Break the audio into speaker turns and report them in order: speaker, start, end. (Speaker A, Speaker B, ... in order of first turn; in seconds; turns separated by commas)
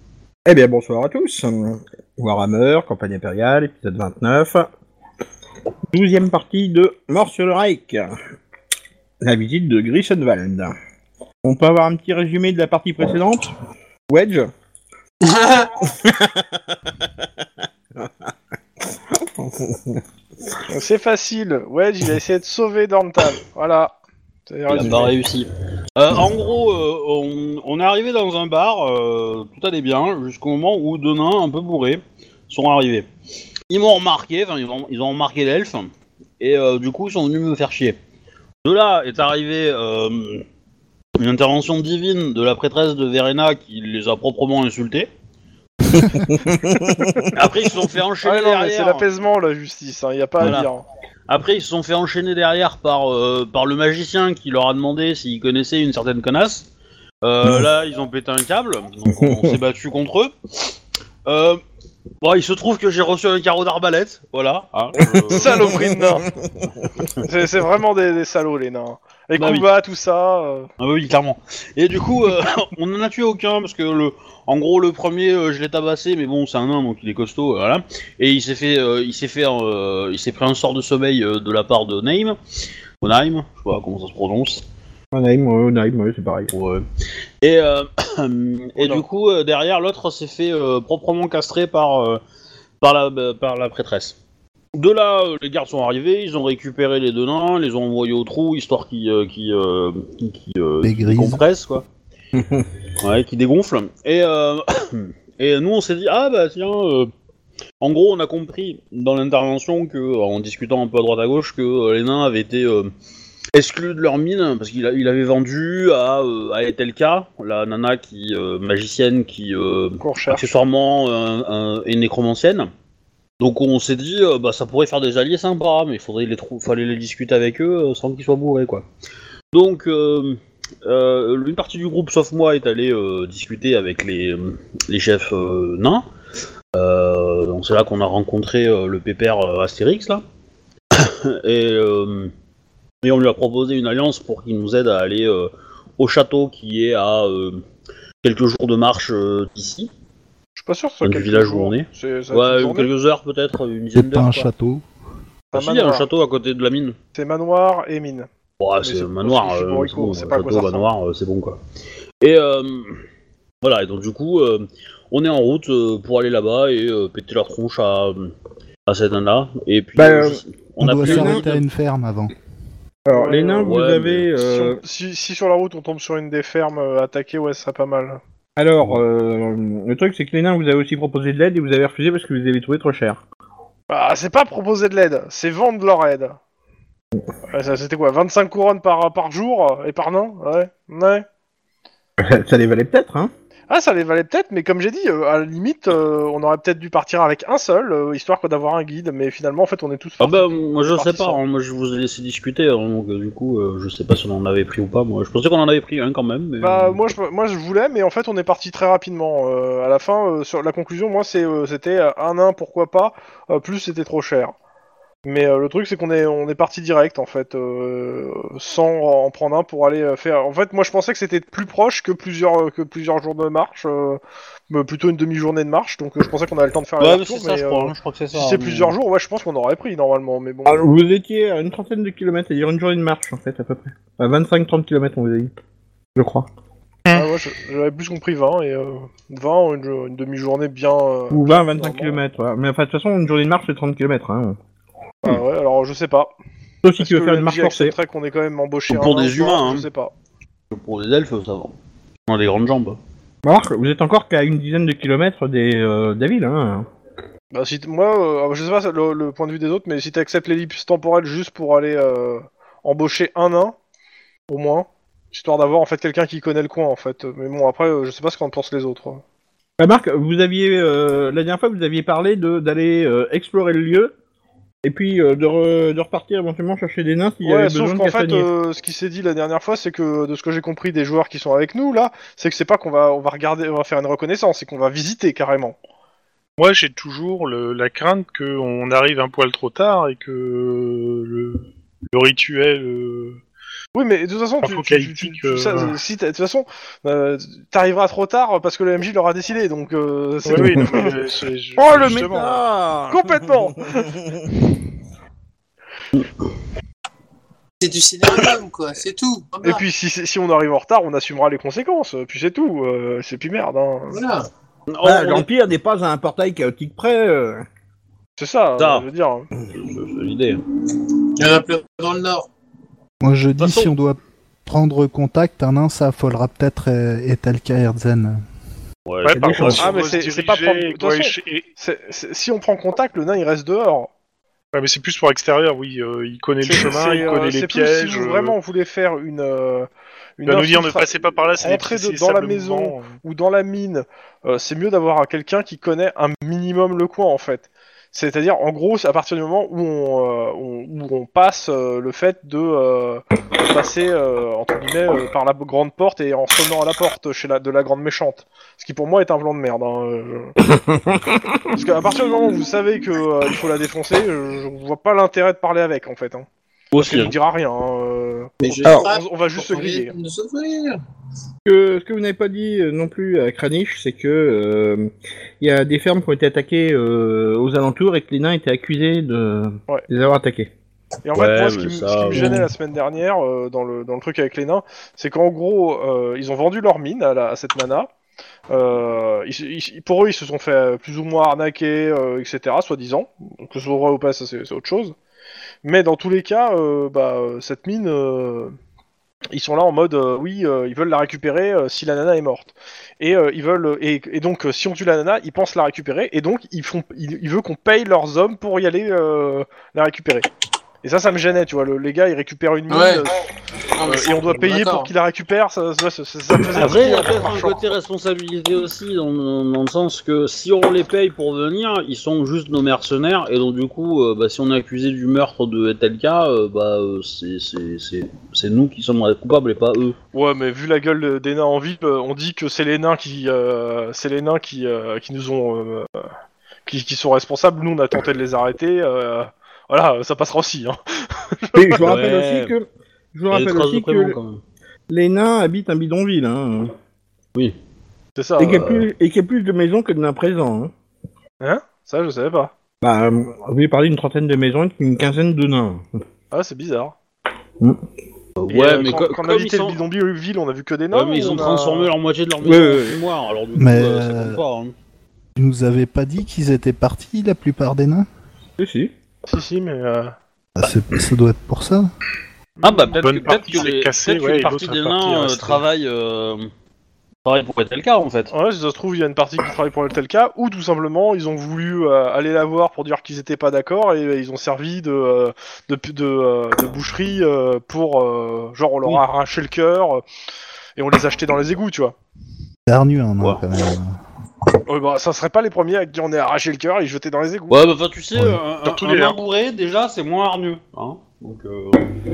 Speaker A: 0.5-4.7, Speaker A: 5.9-8.1, Speaker A: 9.2-10.7, Speaker A: 11.4-13.5, Speaker A: 14.1-14.5, Speaker B: 15.2-15.7, Speaker A: 15.8-17.4, Speaker A: 18.8-20.0, Speaker C: 20.7-23.9, Speaker C: 24.5-25.1, Speaker D: 24.7-33.1, Speaker D: 33.7-38.0, Speaker D: 38.6-40.4, Speaker D: 41.1-45.1, Speaker A: 46.1-47.3, Speaker D: 47.3-49.0, Speaker C: 48.2-50.8, Speaker D: 50.4-50.7, Speaker D: 51.3-56.7, Speaker D: 57.2-60.7, Speaker A: 59.1-59.6, Speaker D: 61.2-61.6, Speaker D: 62.2-65.8, Speaker A: 65.1-66.9, Speaker C: 65.3-66.3, Speaker C: 67.2-70.7, Speaker D: 69.3-69.7, Speaker D: 70.8-82.3, Speaker D: 83.0-84.6, Speaker A: 85.1-86.5, Speaker D: 86.5-86.8, Speaker D: 87.4-92.2, Speaker C: 88.8-89.0, Speaker D: 92.8-94.2, Speaker D: 94.7-101.8, Speaker E: 100.8-101.4, Speaker A: 102.3-102.7, Speaker D: 103.0-107.1, Speaker D: 107.8-112.9, Speaker D: 113.5-122.7, Speaker C: 120.0-120.4, Speaker D: 123.4-128.8, Speaker D: 129.5-136.0, Speaker D: 136.7-140.2, Speaker D: 140.9-142.3, Speaker D: 143.0-147.6, Speaker D: 148.2-149.9, Speaker C: 150.6-152.9, Speaker D: 151.0-154.5, Speaker E: 153.9-154.8, Speaker C: 155.5-156.1, Speaker D: 155.5-156.9, Speaker C: 157.1-158.3, Speaker D: 158.6-161.6, Speaker C: 158.8-160.8, Speaker D: 162.2-163.0, Speaker D: 163.6-168.3, Speaker D: 168.8-171.6, Speaker A: 169.9-170.4, Speaker E: 170.8-172.3, Speaker A: 171.0-171.4, Speaker A: 173.1-174.8, Speaker C: 173.1-173.7, Speaker D: 173.6-174.3, Speaker C: 174.4-178.2, Speaker A: 178.6-183.2, Speaker C: 183.9-186.4, Speaker C: 187.5-191.2, Speaker A: 192.2-193.3, Speaker C: 193.7-201.4, Speaker D: 200.2-207.0, Speaker C: 206.6-214.5, Speaker C: 215.2-230.8, Speaker D: 227.0-228.9, Speaker A: 230.7-235.5, Speaker A: 236.1-236.5, Speaker C: 237.1-242.2, Speaker A: 241.3-244.6, Speaker C: 245.2-246.3, Speaker A: 246.8-247.9, Speaker C: 247.0-250.1, Speaker D: 248.9-249.8, Speaker D: 250.7-251.8, Speaker D: 252.3-253.0, Speaker A: 253.4-256.9, Speaker C: 257.5-263.8, Speaker C: 264.5-269.2, Speaker A: 269.8-274.1, Speaker A: 274.8-278.5, Speaker C: 277.4-285.8, Speaker F: 286.6-293.4, Speaker C: 293.9-301.1, Speaker F: 294.6-296.0, Speaker F: 300.5-302.6, Speaker A: 301.8-304.5, Speaker C: 303.1-304.2, Speaker B: 307.8-309.8, Speaker C: 309.6-314.2, Speaker B: 314.1-314.5, Speaker D: 314.9-315.5, Speaker A: 315.0-317.6, Speaker C: 318.4-319.5, Speaker D: 318.8-319.1, Speaker D: 319.7-320.6, Speaker B: 321.4-322.5, Speaker E: 323.2-328.4, Speaker D: 323.6-323.9, Speaker D: 329.1-329.9, Speaker F: 329.2-331.7, Speaker A: 329.3-330.0, Speaker C: 329.7-334.1, Speaker F: 334.7-338.5, Speaker C: 336.6-339.9, Speaker C: 340.4-360.5, Speaker F: 340.4-343.1, Speaker A: 360.6-361.8, Speaker C: 361.7-366.4, Speaker D: 366.9-367.4, Speaker C: 367.0-370.1, Speaker B: 368.6-371.0, Speaker A: 371.6-380.7, Speaker C: 381.2-388.1, Speaker D: 381.3-382.7, Speaker C: 388.7-395.1, Speaker C: 395.8-398.7, Speaker C: 399.5-410.5, Speaker C: 411.0-413.4, Speaker B: 412.9-413.3, Speaker B: 414.0-415.1, Speaker C: 414.0-417.8, Speaker D: 416.7-430.1, Speaker C: 430.3-436.3, Speaker C: 436.9-442.1, Speaker A: 441.7-444.4, Speaker D: 442.0-442.7, Speaker D: 443.5-444.6, Speaker A: 445.1-446.9, Speaker C: 448.4-448.9, Speaker A: 448.6-450.9, Speaker C: 451.6-452.7, Speaker A: 453.0-456.1, Speaker C: 456.5-457.1, Speaker D: 458.6-460.0, Speaker C: 458.7-462.1, Speaker D: 461.1-464.9, Speaker A: 462.6-463.2, Speaker E: 463.7-464.6, Speaker E: 465.6-468.3, Speaker A: 468.8-469.1, Speaker C: 469.5-470.3, Speaker E: 470.8-472.1, Speaker C: 472.8-473.1, Speaker D: 472.8-476.7, Speaker F: 473.2-475.8, Speaker D: 477.4-478.5, Speaker C: 478.5-490.2, Speaker C: 491.0-492.1, Speaker E: 492.9-494.2, Speaker C: 494.9-497.8, Speaker D: 497.7-502.1, Speaker F: 498.9-499.4